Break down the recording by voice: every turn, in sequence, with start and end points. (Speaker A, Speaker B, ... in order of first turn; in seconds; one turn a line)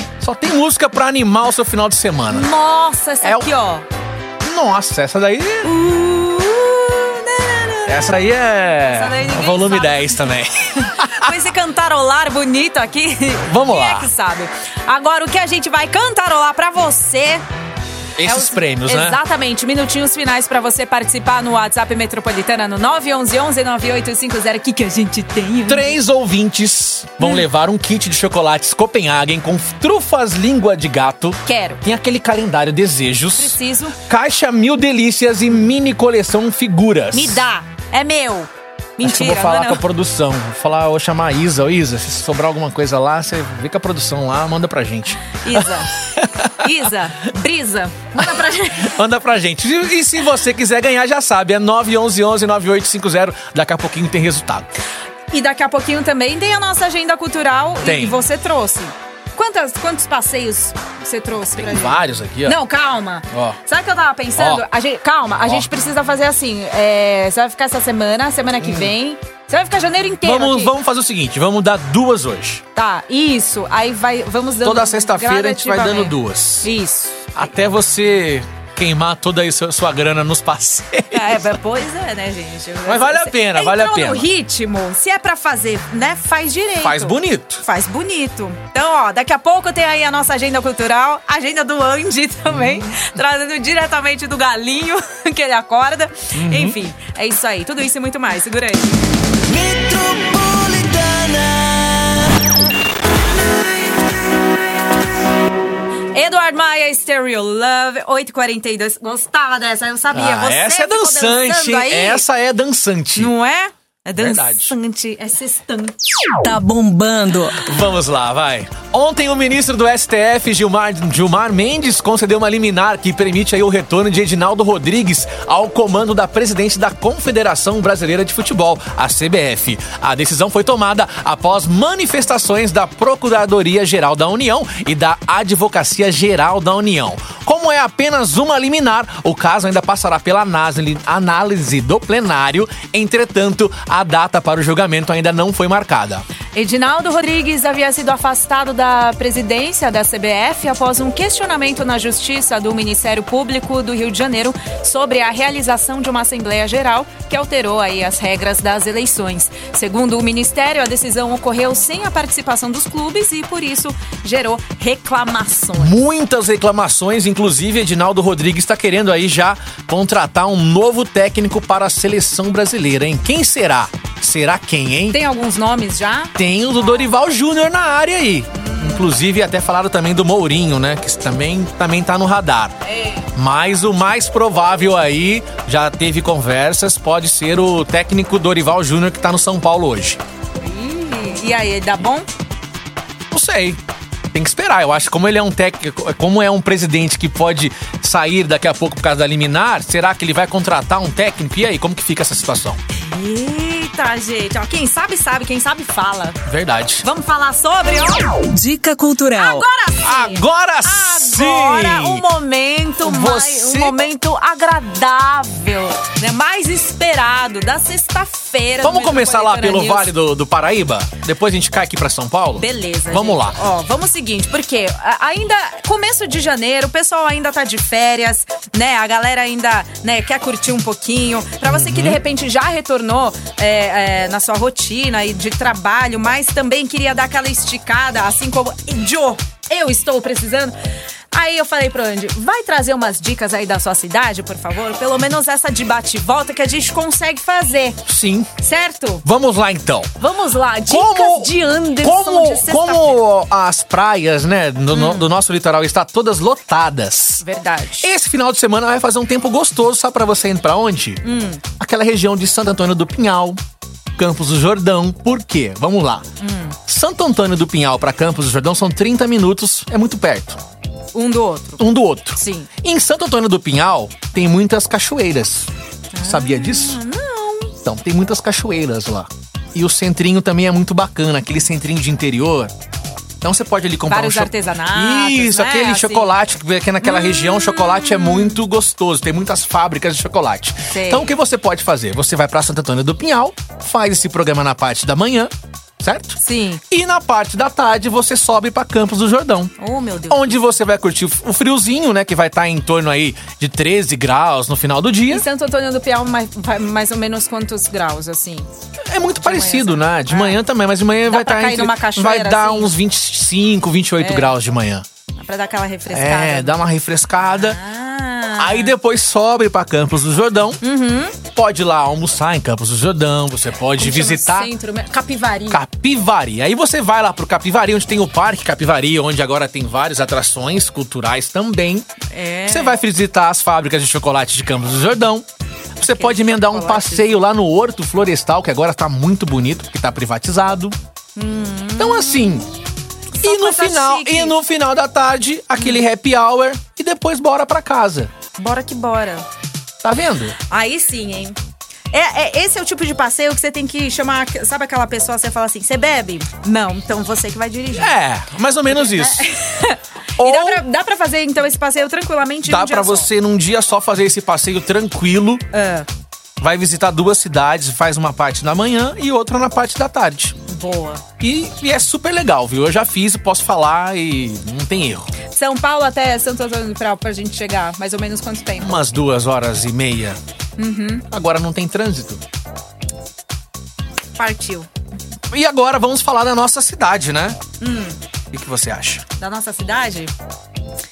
Speaker A: 0.2-2.5
Speaker B: 2.3-3.9
Speaker A: 3.2-3.5
Speaker A: 4.4-5.7
Speaker B: 5.6-8.1
Speaker A: 7.8-11.3
Speaker B: 8.8-17.4
Speaker A: 13.4-14.1
Speaker A: 18.2-19.2
Speaker B: 18.2-25.9
Speaker A: 25.6-37.4
Speaker B: 27.2-27.4
Speaker B: 31.4-31.8
Speaker B: 33.3-34.0
Speaker B: 37.1-39.8
Speaker A: 39.0-46.7
Speaker B: 45.4-49.0
Speaker A: 48.2-54.7
Speaker B: 55.3-70.7
Speaker A: 57.8-58.2
Speaker A: 61.5-62.6
Speaker A: 63.3-63.6
Speaker A: 64.4-64.6
Speaker A: 68.6-68.9
Speaker A: 70.2-72.6
Speaker B: 72.7-77.3
Speaker A: 74.6-76.7
Speaker A: 77.3-81.6
Speaker B: 81.1-99.0
Speaker A: 82.8-84.3
Speaker A: 86.8-87.6
Speaker A: 92.5-92.8
Speaker A: 96.3-96.8
Speaker C: 99.5-102.2
Speaker B: 106.1-112.2
Speaker A: 110.1-113.3
Speaker B: 113.2-115.9
Speaker A: 114.2-114.7
Speaker D: 116.4-117.7
Speaker A: 117.6-146.2
Speaker B: 146.5-165.9
Speaker A: 165.8-175.2
Speaker B: 175.1-176.3
Speaker A: 176.3-182.8
Speaker B: 178.5-179.1
Speaker B: 182.9-183.3
Speaker A: 183.3-190.2
Speaker B: 190.6-192.3
Speaker A: 193.3-193.8
Speaker A: 194.3-202.8
Speaker B: 202.9-206.4
Speaker A: 206.4-207.1
Speaker B: 207.0-208.4
Speaker D: 208.5-209.6
Speaker B: 209.3-220.1
Speaker A: 210.0-212.2
Speaker A: 213.0-214.1
Speaker A: 218.8-223.6
Speaker B: 222.6-240.8
Speaker A: 231.6-232.2
Speaker B: 241.3-248.0
Speaker A: 248.0-248.5
Speaker B: 248.6-249.2
Speaker A: 249.2-250.1
Speaker B: 250.2-253.2
Speaker A: 250.8-257.4
Speaker B: 254.9-255.3
Speaker B: 257.4-258.1
Speaker A: 258.0-263.6
Speaker B: 261.2-261.6
Speaker A: 264.2-266.2
Speaker B: 266.4-266.8
Speaker A: 266.9-270.6
Speaker B: 271.1-271.8
Speaker A: 271.8-277.0
Speaker B: 272.3-272.7
Speaker B: 276.1-277.8
Speaker A: 277.8-282.7
Speaker A: 283.4-296.4
Speaker B: 284.1-286.3
Speaker B: 287.0-288.6
Speaker B: 290.9-291.3
Speaker B: 296.4-296.8
Speaker A: 296.9-299.7
Speaker B: 299.8-300.7
Speaker A: 300.3-305.4
Speaker B: 305.3-308.7
Speaker A: 309.0-315.1
Speaker B: 309.4-310.6
Speaker B: 311.3-312.9
Speaker B: 314.2-314.5
Speaker B: 315.4-316.8
Speaker A: 316.1-317.8
Speaker B: 317.4-319.0
Speaker A: 318.6-320.8
Speaker B: 320.8-321.4
Speaker A: 321.4-324.7
Speaker B: 323.9-325.8
Speaker A: 325.7-332.1
Speaker B: 332.3-333.0
Speaker A: 332.7-335.4
Speaker A: 336.0-340.9
Speaker B: 336.0-337.4
Speaker B: 341.4-344.6
Speaker A: 342.0-342.7
Speaker A: 343.4-348.3
Speaker B: 345.8-346.0
Speaker B: 348.6-349.5
Speaker A: 350.0-350.6
Speaker B: 350.7-351.6
Speaker B: 352.1-358.2
Speaker A: 357.9-359.4
Speaker B: 358.9-363.3
Speaker A: 360.4-360.8
Speaker A: 362.6-365.6
Speaker B: 365.7-366.1
Speaker A: 366.6-370.6
Speaker B: 370.7-371.2
Speaker A: 371.4-375.3
Speaker B: 375.5-379.0
Speaker A: 378.8-380.4
Speaker B: 380.8-381.2
Speaker A: 381.3-382.4
Speaker B: 384.4-384.9
Speaker A: 385.5-387.6
Speaker B: 387.8-388.2
Speaker A: 388.5-389.2
Speaker B: 389.4-390.3